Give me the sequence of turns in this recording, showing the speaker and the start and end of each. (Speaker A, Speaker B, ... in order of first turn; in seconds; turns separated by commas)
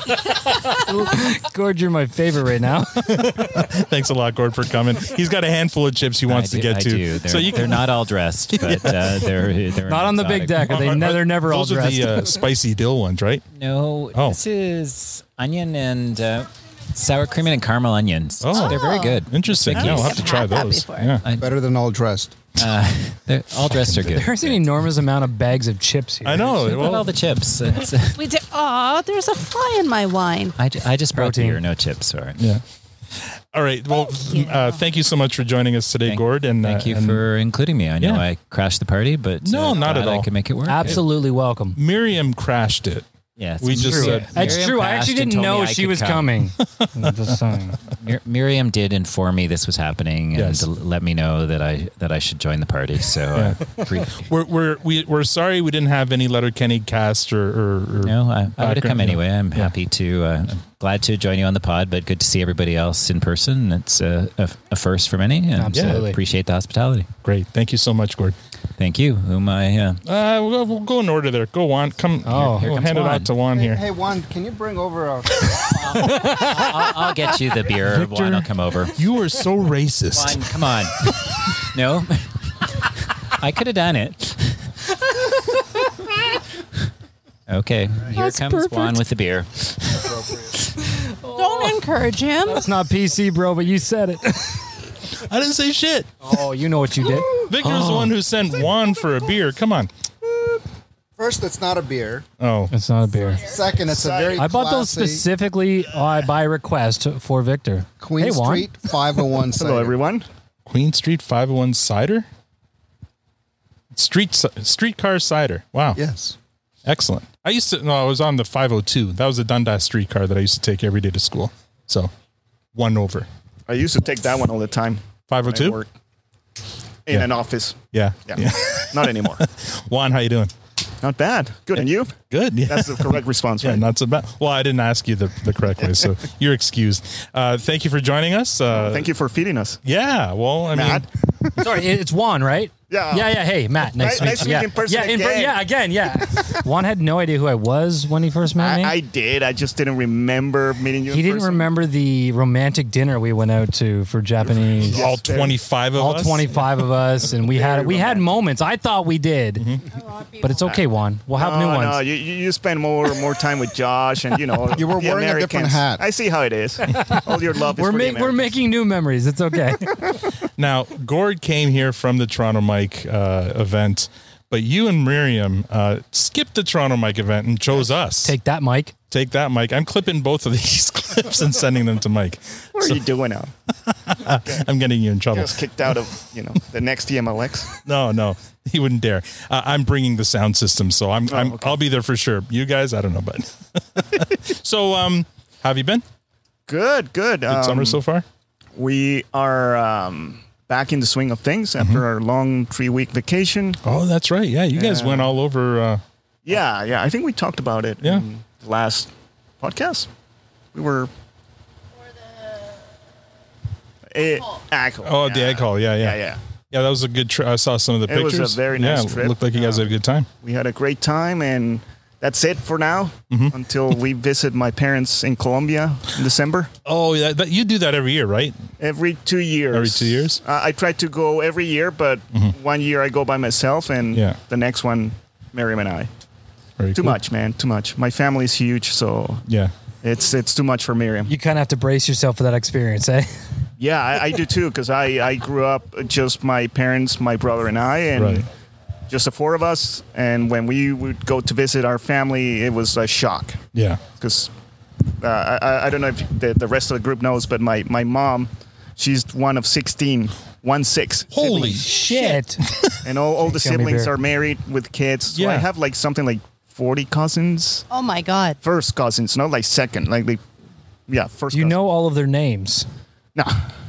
Speaker A: 0.3-3.6, Speaker B: 3.1-7.9, Speaker C: 6.3-10.9, Speaker B: 8.5-9.3, Speaker A: 9.8-12.3, Speaker B: 10.7-13.4, Speaker C: 13.6-20.3, Speaker B: 14.1-14.4, Speaker B: 18.4-21.2, Speaker D: 18.5-21.2, Speaker E: 21.4-22.4, Speaker C: 22.6-24.8, Speaker A: 24.1-26.9, Speaker B: 26.2-27.1, Speaker C: 26.6-28.2, Speaker D: 28.1-30.6, Speaker C: 30.6-32.4, Speaker A: 31.1-31.6, Speaker B: 32.4-32.6, Speaker B: 33.2-37.2, Speaker D: 34.1-34.8, Speaker C: 36.1-41.0, Speaker B: 38.0-38.2, Speaker B: 39.4-41.1, Speaker A: 40.7-41.8, Speaker B: 41.8-43.1, Speaker C: 43.4-46.4, Speaker B: 43.6-44.6, Speaker A: 43.8-47.8, Speaker C: 48.0-54.3, Speaker B: 50.4-50.7, Speaker B: 53.3-59.7, Speaker C: 58.0-67.1, Speaker A: 65.6-66.2, Speaker B: 65.7-66.0, Speaker B: 67.2-68.3, Speaker C: 68.8-70.0, Speaker B: 70.0-73.8, Speaker A: 72.2-72.9, Speaker C: 72.5-73.3, Speaker E: 73.5-76.0, Speaker A: 75.9-76.8, Speaker C: 76.0-79.0, Speaker A: 78.0-78.3, Speaker B: 79.0-80.4, Speaker C: 80.1-82.3, Speaker C: 82.8-84.6, Speaker C: 87.5-90.1, Speaker D: 88.2-88.9, Speaker D: 91.2-92.7, Speaker A: 92.5-94.7, Speaker B: 95.2-96.1, Speaker A: 96.2-98.1, Speaker B: 97.3-99.9, Speaker E: 101.2-102.3, Speaker B: 102.4-102.7, Speaker A: 102.7-103.5, Speaker E: 103.4-105.3, Speaker F: 103.9-104.4, Speaker A: 104.4-108.7, Speaker E: 108.0-110.0, Speaker F: 109.6-110.3, Speaker B: 110.7-112.3, Speaker B: 113.9-116.0, Speaker E: 116.0-116.3, Speaker B: 116.8-122.1, Speaker B: 122.8-123.3, Speaker F: 123.7-125.9, Speaker B: 125.3-125.8, Speaker F: 127.1-129.4, Speaker B: 127.9-130.5, Speaker F: 131.0-133.9, Speaker B: 131.8-139.1, Speaker F: 138.7-139.8, Speaker B: 139.8-141.1, Speaker F: 140.7-141.5, Speaker A: 141.6-148.9, Speaker F: 142.9-145.6, Speaker F: 148.6-151.7, Speaker A: 151.1-155.0, Speaker F: 154.4-155.7, Speaker B: 154.9-156.7, Speaker A: 155.9-159.7, Speaker F: 157.4-158.3, Speaker B: 159.6-159.8, Speaker A: 160.4-162.0, Speaker F: 160.7-168.6, Speaker E: 164.7-166.0, Speaker A: 166.9-170.0, Speaker B: 170.6-178.3, Speaker A: 178.2-178.9, Speaker B: 179.1-183.0, Speaker F: 182.8-183.5, Speaker B: 183.9-186.2, Speaker F: 185.3-187.8, Speaker B: 187.8-196.0, Speaker F: 191.3-191.8, Speaker F: 196.7-198.0, Speaker B: 197.5-198.2, Speaker F: 198.8-203.8, Speaker B: 203.8-206.0, Speaker F: 204.7-205.3, Speaker F: 206.5-210.1, Speaker F: 210.7-211.1, Speaker F: 214.1-216.4, Speaker B: 215.0-220.3, Speaker F: 218.1-226.7, Speaker B: 223.3-224.0, Speaker B: 226.9-228.6, Speaker F: 228.8-236.1, Speaker B: 229.7-230.4, Speaker B: 234.1-234.4, Speaker B: 236.8-237.2, Speaker F: 236.9-239.4, Speaker B: 239.5-239.7, Speaker F: 240.0-241.3, Speaker A: 241.3-243.3, Speaker F: 243.8-248.5, Speaker B: 248.2-248.4, Speaker F: 249.1-254.5, Speaker B: 253.7-254.0, Speaker F: 255.2-261.8, Speaker B: 261.3-262.0, Speaker A: 261.4-262.6, Speaker B: 262.7-263.0, Speaker F: 263.0-267.9, Speaker A: 263.4-264.1, Speaker B: 265.3-265.7, Speaker D: 267.9-268.6, Speaker F: 268.6-270.4, Speaker F: 271.1-271.8, Speaker A: 271.5-272.9, Speaker F: 273.4-273.7